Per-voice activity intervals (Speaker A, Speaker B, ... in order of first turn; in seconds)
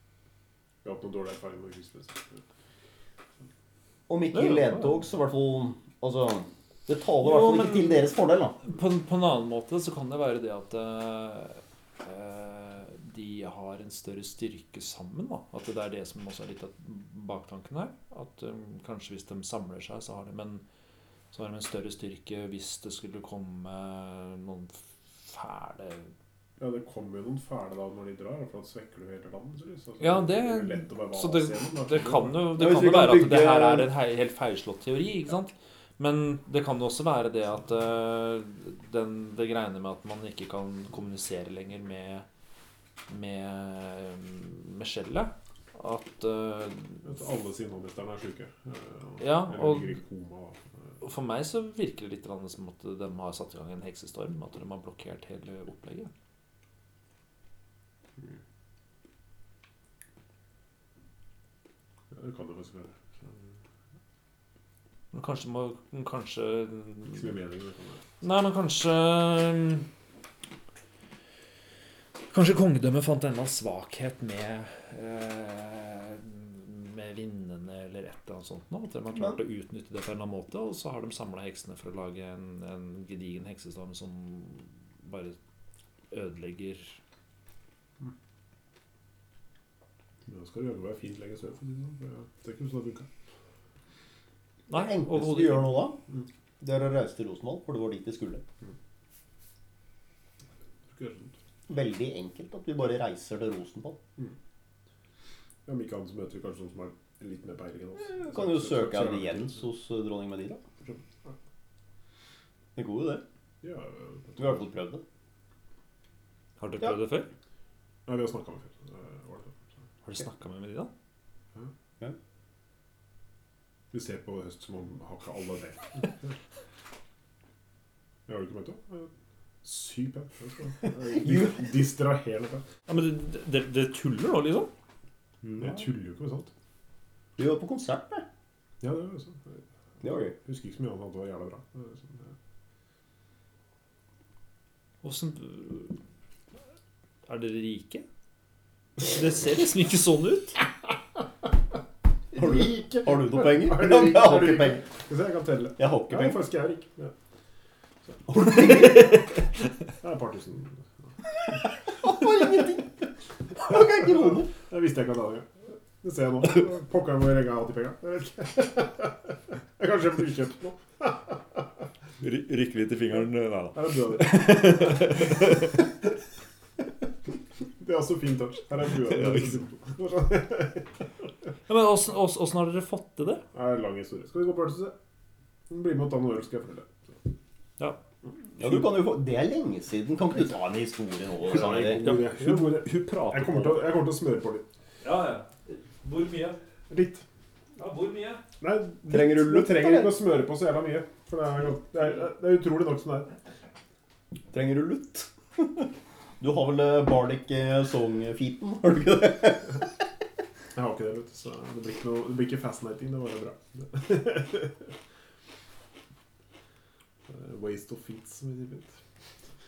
Speaker A: 0.8-2.4, 26.6-32.5, 47.0-50.6, 62.1-63.5, 67.1-68.0, 90.3-93.1, 100.9-101.4, 105.7-109.6, 110.8-111.3, 113.6-114.6, 118.1-119.6, 123.9-126.3, 128.3-129.1, 129.6-132.7, 135.5-136.5, 138.8-139.6, 140.3-142.3, 152.3-157.1, 160.0-160.9, 163.7-171.3, 173.7-175.2, 177.8-180.9, 183.5-185.0, 185.7-187.2, 191.4-194.7, 196.9-197.2, 198.6-203.4, 210.8-214.9, 217.3-218.9
Speaker B: 4.1-8.6, 32.5-33.9, 94.7-96.0, 96.6-98.4, 101.7-104.0, 108.0-110.6, 112.8-113.2, 114.4-115.0, 130.8-131.7, 137.4-138.2, 140.0-140.3, 152.3-154.9, 155.8-156.5, 158.3-159.3, 161.9-164.5, 188.6-192.1, 199.1-200.2, 204.5-209.9
Speaker C: 4.3-5.0, 7.2-20.6, 21.3-26.1, 30.0-42.3, 43.1-47.1, 49.2-50.0, 51.0-56.1, 65.1-67.3, 68.2-69.9, 72.3-85.4, 86.1-87.0, 94.7-95.9, 116.6-117.3, 120.0-120.9, 132.9-134.7, 145.0-145.9, 147.3-148.1, 149.0-150.6, 172.2-175.8, 179.1-179.6, 181.7-183.4, 191.6-193.9, 195.0-196.6, 197.8-198.4